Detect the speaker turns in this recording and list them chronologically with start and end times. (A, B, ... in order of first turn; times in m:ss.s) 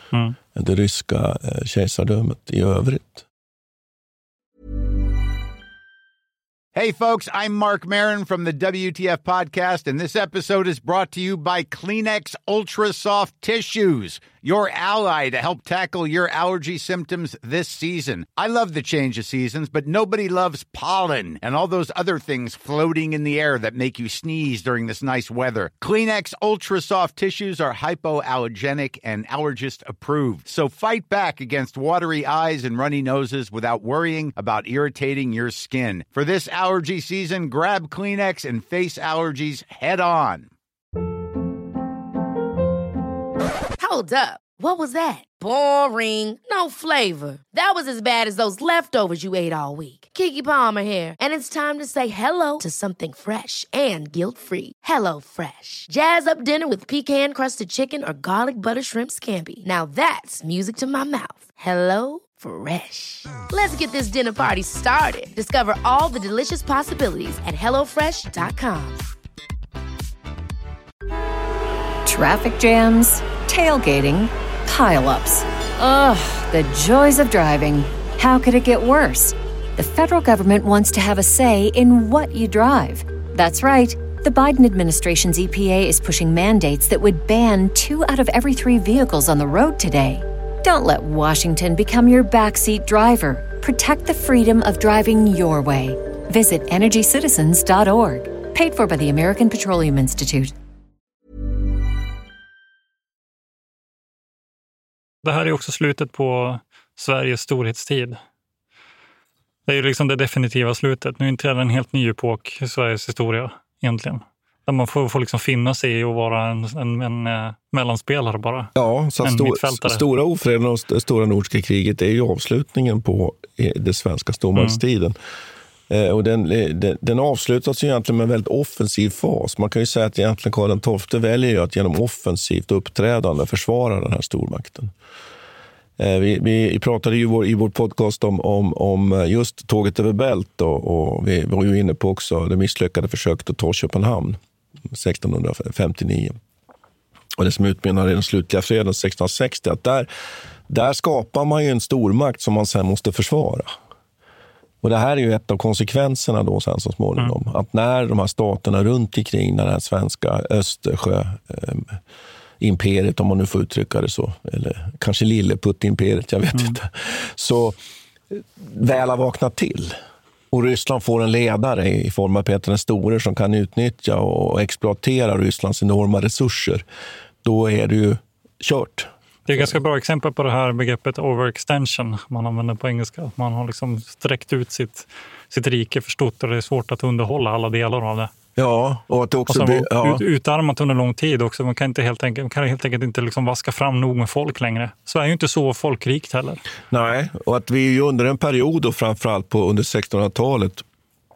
0:00.5-0:03.2 A
0:06.7-0:40.5 B
0:43.8-1:09.0 C
1:12.0-1:40.5 D
1:45.2-1:48.2 E
1:49.7-2:00.0 E
1:58.7-2:05.2 A
2:05.9-2:14.9 A
2:16.0-2:24.4 A
2:24.9-2:26.3 A
2:27.4-2:30.1 A
2:30.7-2:33.7 A
2:34.8-2:42.0 A
2:42.6-2:47.8 A
2:48.3-2:50.0 A
2:50.5-2:56.8 A
2:57.4-2:59.7 A
2:59.5-3:08.3 E
3:08.6-3:10.2 A
3:09.5-3:16.6 E
3:16.9-3:20.8 A